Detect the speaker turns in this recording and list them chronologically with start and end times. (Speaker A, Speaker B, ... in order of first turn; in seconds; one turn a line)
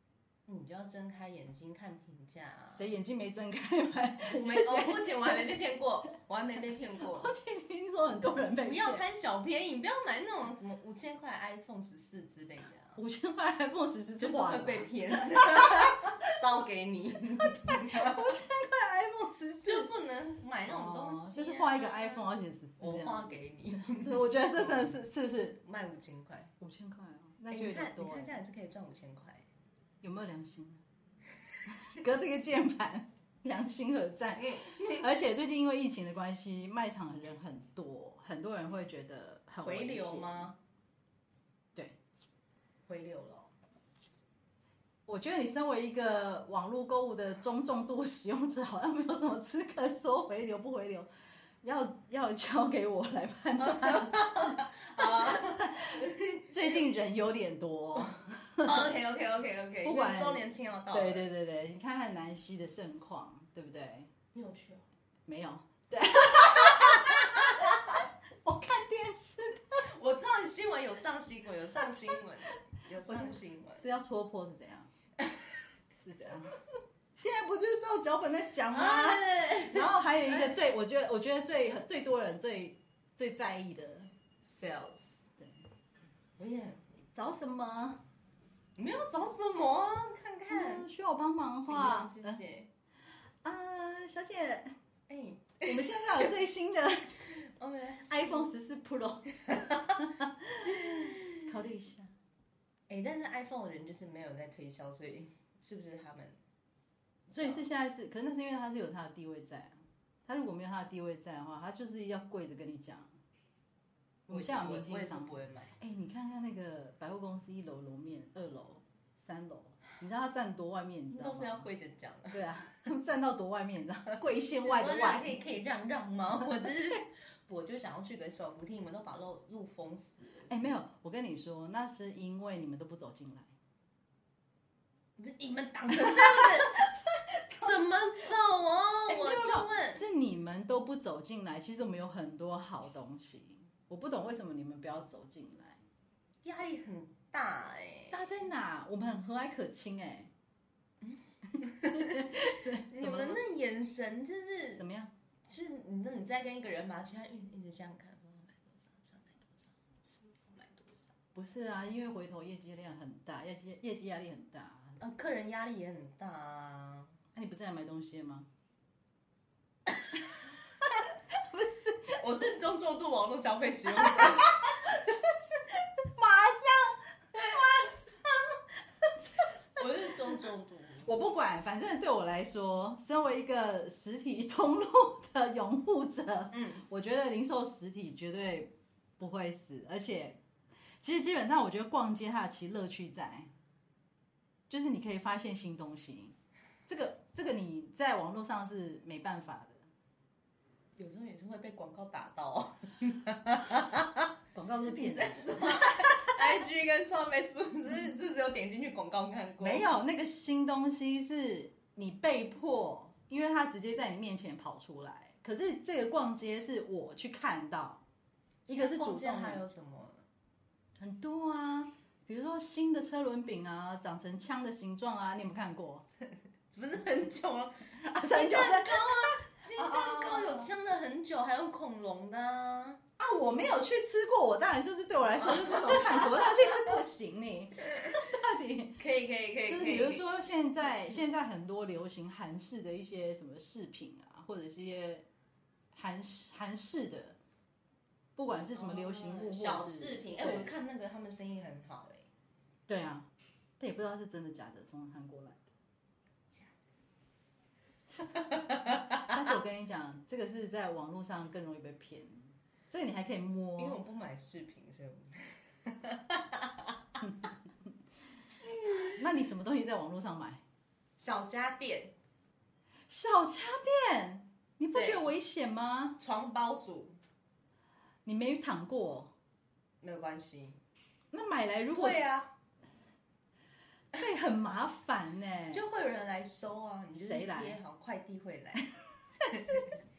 Speaker A: 0.5-2.9
Speaker B: 2.7-5.5
Speaker A: 4.2-7.3
Speaker B: 7.0-9.0
Speaker A: 8.6-13.0
Speaker B: 12.9-15.9
Speaker A: 14.2-18.3
Speaker B: 17.4-19.9
Speaker A: 19.6-22.3
Speaker B: 20.6-25.6
Speaker A: 22.8-25.0
Speaker A: 25.6-26.5
Speaker B: 26.6-28.4
Speaker A: 27.5-29.4
Speaker B: 30.0-30.8
Speaker B: 31.7-40.5
Speaker A: 34.4-35.0
Speaker A: 39.6-40.6
Speaker A: 42.9-43.5
Speaker B: 45.0-51.1
Speaker B: 51.6-59.0
Speaker A: 53.6-56.8
Speaker A: 58.6-61.3
Speaker B: 59.8-64.1
Speaker A: 64.3-64.8
Speaker B: 65.3-69.9
Speaker A: 66.8-67.7
Speaker A: 69.9-73.8
Speaker B: 73.0-74.9
Speaker B: 76.0-76.5
Speaker B: 77.2-84.1
Speaker A: 78.7-80.6
Speaker A: 84.4-85.2
Speaker A: 86.4-87.0
Speaker B: 87.1-88.0
Speaker A: 88.8-90.8
Speaker B: 90.5-92.4
Speaker A: 91.7-92.7
Speaker B: 93.4-94.7
Speaker A: 95.1-96.3
Speaker B: 95.6-97.2
Speaker A: 97.3-98.5
Speaker B: 98.1-102.1
Speaker A: 99.5-99.7
Speaker A: 100.9-101.2
Speaker A: 102.9-106.3
Speaker A: 107.3-107.7
Speaker B: 107.3-113.1
Speaker A: 114.3-115.8
Speaker B: 114.3-121.7
Speaker A: 121.1-122.6
Speaker B: 122.3-125.4
Speaker A: 124.6-130.8
Speaker B: 130.5-133.5
Speaker A: 135.2-136.8
Speaker B: 136.0-136.8
Speaker B: 137.5-137.8
Speaker A: 137.6-140.0
Speaker B: 139.1-145.8
Speaker A: 146.4-148.3
Speaker B: 148.1-150.3
Speaker A: 151.0-154.8
Speaker B: 151.9-153.4
Speaker B: 154.8-155.1
Speaker A: 155.5-161.1
Speaker B: 161.3-165.0
Speaker A: 165.0-167.1
Speaker B: 167.3-168.5
Speaker B: 171.3-172.2
Speaker A: 172.2-175.0
Speaker B: 174.0-174.9
Speaker B: 175.8-179.8
Speaker A: 177.3-177.9
Speaker A: 179.7-181.2
Speaker B: 181.0-190.4
Speaker A: 186.5-186.8
Speaker B: 191.0-193.5
Speaker B: 194.7-196.3
Speaker B: 196.8-199.8
Speaker A: 200.9-204.3
Speaker B: 204.5-206.5
Speaker A: 204.9-209.9
Speaker B: 209.6-218.0
Speaker A: 218.7-220.2
Speaker B: 218.7-219.6
Speaker B: 221.0-226.0
Speaker A: 226.7-233.0
Speaker B: 228.0-230.7
Speaker B: 233.2-239.0
Speaker A: 235.4-236.6
Speaker A: 239.0-240.3
Speaker B: 239.7-245.2
Speaker B: 245.9-247.4
Speaker B: 248.3-250.7
Speaker A: 248.7-252.3
Speaker B: 252.9-253.3
Speaker B: 253.8-255.7
Speaker A: 258.5-259.2
Speaker B: 259.2-264.0
Speaker A: 263.8-266.9
Speaker A: 268.7-269.1
Speaker B: 269.1-270.6
Speaker A: 271.2-272.1
Speaker B: 273.1-276.2
Speaker A: 274.9-275.3
Speaker A: 276.2-277.2
Speaker B: 278.2-279.3
Speaker A: 280.0-280.8
Speaker B: 281.3-282.2
Speaker A: 281.9-282.5
Speaker B: 284.1-285.8
Speaker A: 285.7-288.9
Speaker B: 287.1-287.8
Speaker B: 289.4-289.9